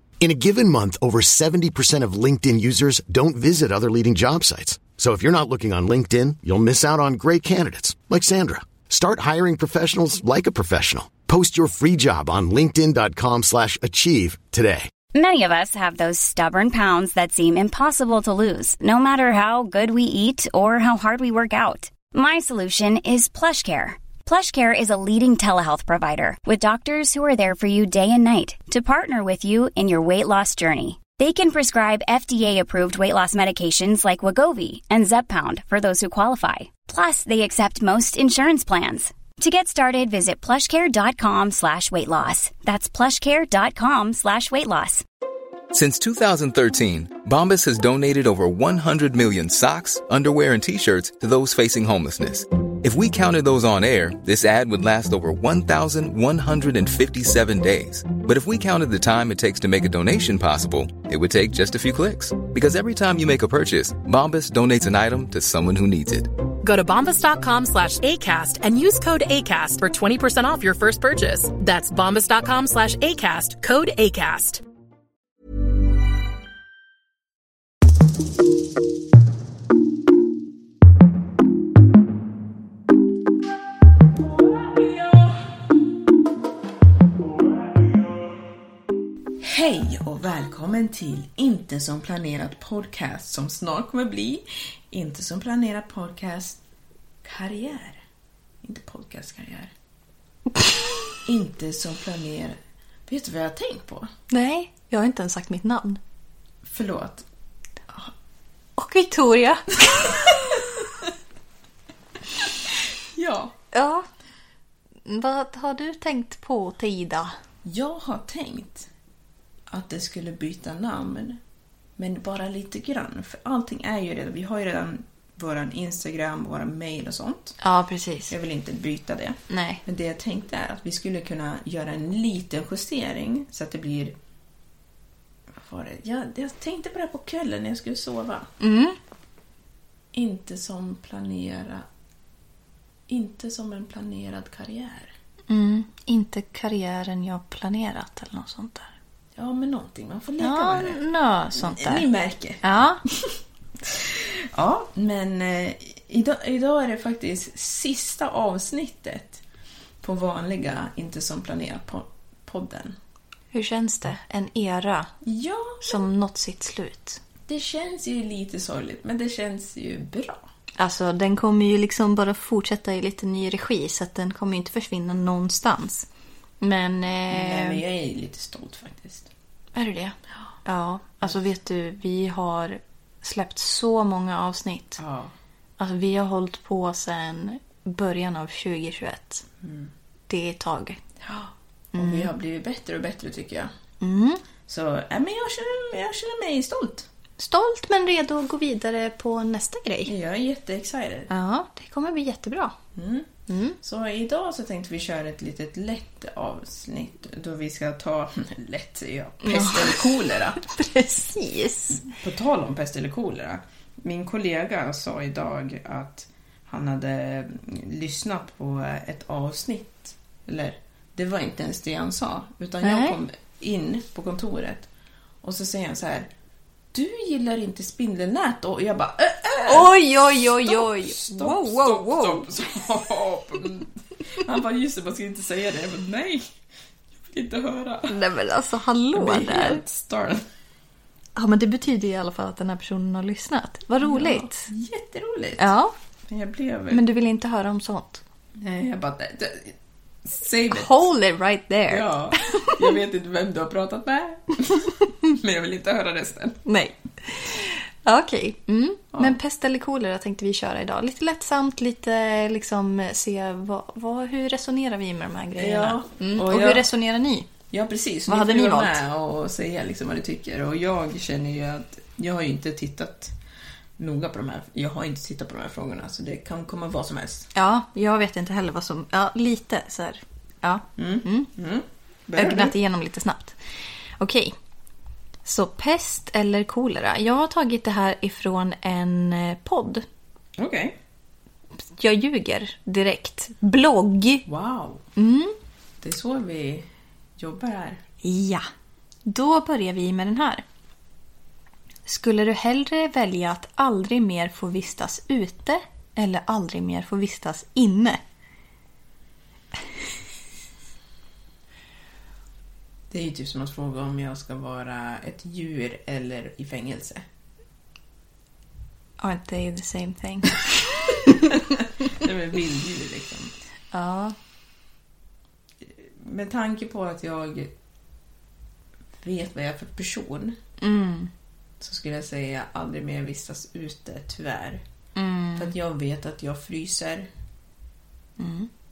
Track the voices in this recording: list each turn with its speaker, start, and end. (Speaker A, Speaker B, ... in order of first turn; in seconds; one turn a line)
Speaker A: 0.2-14.9
Speaker B: 15.1-45.0
Speaker C: 45.7-66.3
Speaker D: 66.6-74.6
Speaker E: 89.4-96.6
Speaker E: 97.2-98.0
Speaker E: 98.6-99.7
Speaker E: 101.2-104.1
Speaker F: 104.3-106.0
Speaker E: 106.6-107.2
Speaker F: 108.8-110.5
Speaker E: 110.3-110.8
Speaker E: 113.1-113.5
Speaker F: 113.7-114.1
Speaker F: 115.0-117.3
Speaker E: 117.7-118.9
Speaker E: 119.7-121.4
Speaker E: 122.0-127.6
Speaker F: 127.6-128.3
Speaker E: 128.3-134.2
Speaker F: 129.5-129.8
Speaker E: 135.6-138.5
Speaker F: 138.6-139.0
Speaker E: 140.1-141.9
Speaker E: 143.1-145.1
Speaker F: 145.5-148.9
Speaker E: 149.4-151.0
Speaker F: 150.4-152.1
Speaker E: 151.6-159.4
Speaker F: 152.6-153.0
Speaker E: 160.0-163.0
Speaker F: 163.5-165.1
Speaker E: 165.2-166.0
Speaker F: 165.8-167.2
Speaker E: 167.5-170.4
Speaker F: 170.8-176.1
Speaker F: 176.6-177.8
Speaker E: 177.3-179.3
Speaker F: 179.8-185.0
Speaker E: 185.0-185.3
Speaker F: 185.8-189.4
Speaker E: 189.6-189.9
Speaker F: 190.3-191.0
Speaker E: 191.2-193.7
Speaker F: 191.9-192.3
Speaker F: 194.0-194.4
Speaker E: 194.7-197.1
Speaker F: 197.4-200.1
Speaker E: 200.1-201.3
Speaker F: 201.3-202.8
Speaker E: 202.9-210.6
Speaker F: 203.5-203.8
Speaker F: 209.4-212.1
Speaker E: 212.0-224.9
Speaker F: 222.8-223.2
Speaker E: 225.4-226.3
Speaker E: 226.9-236.5
Speaker F: 229.7-232.5
Speaker E: 237.1-238.2
Speaker F: 238.1-239.8
Speaker E: 239.1-240.4
Speaker F: 241.4-244.7
Speaker E: 244.0-245.7
Speaker F: 245.6-245.9
Speaker E: 246.3-247.0
Speaker F: 246.9-248.2
Speaker E: 248.6-251.1
Speaker F: 250.7-252.8
Speaker E: 251.9-256.6
Speaker F: 256.7-267.5
Speaker E: 265.6-266.9
Speaker E: 267.7-273.4
Speaker F: 268.3-269.0
Speaker E: 274.0-277.5
Speaker F: 277.5-281.5
Speaker E: 281.0-282.8
Speaker F: 282.4-283.6
Speaker F: 284.2-284.6
Speaker F: 285.4-290.1
Speaker E: 290.6-291.0
Speaker F: 291.9-294.4
Speaker E: 294.5-295.1
Speaker F: 295.2-295.6
Speaker E: 296.0-298.0
Speaker F: 298.2-298.7
Speaker F: 299.3-300.6
Speaker F: 302.1-308.2
Speaker E: 313.1-317.3
Speaker F: 319.2-321.8
Speaker E: 322.1-323.5
Speaker F: 323.9-324.4
Speaker E: 325.8-327.7
Speaker E: 329.2-330.6
Speaker F: 330.8-331.3
Speaker E: 331.8-334.8
Speaker F: 335.2-335.7
Speaker E: 335.6-337.3
Speaker F: 338.4-338.7